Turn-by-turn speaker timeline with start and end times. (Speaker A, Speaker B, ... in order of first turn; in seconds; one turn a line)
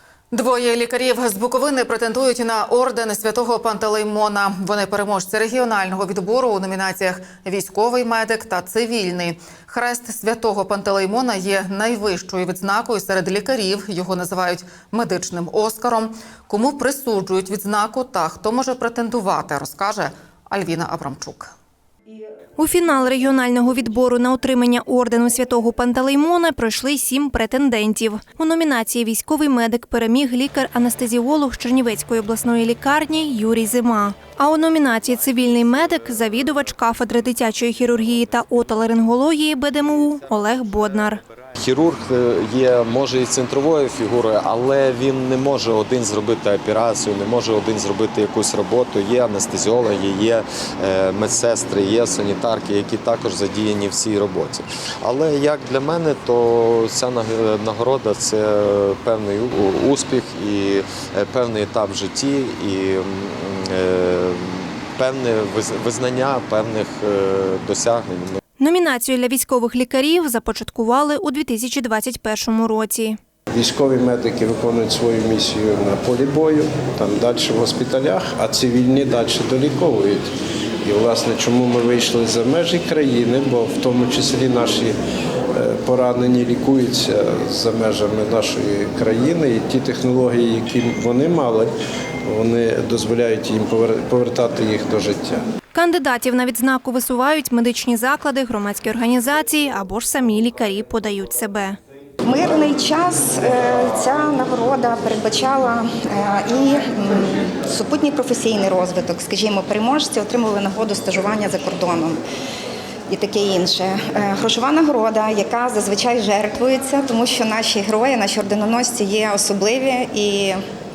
Speaker A: 0.3-21.5
Speaker B: 22.6-41.2
Speaker C: 41.6-68.4
Speaker B: 68.6-73.2
Speaker D: 73.5-80.3
Speaker D: 80.8-85.0
Speaker D: 85.5-91.7
Speaker D: 92.2-95.4
Speaker B: 95.7-101.8
Speaker E: 102.2-112.2
Speaker E: 113.1-120.6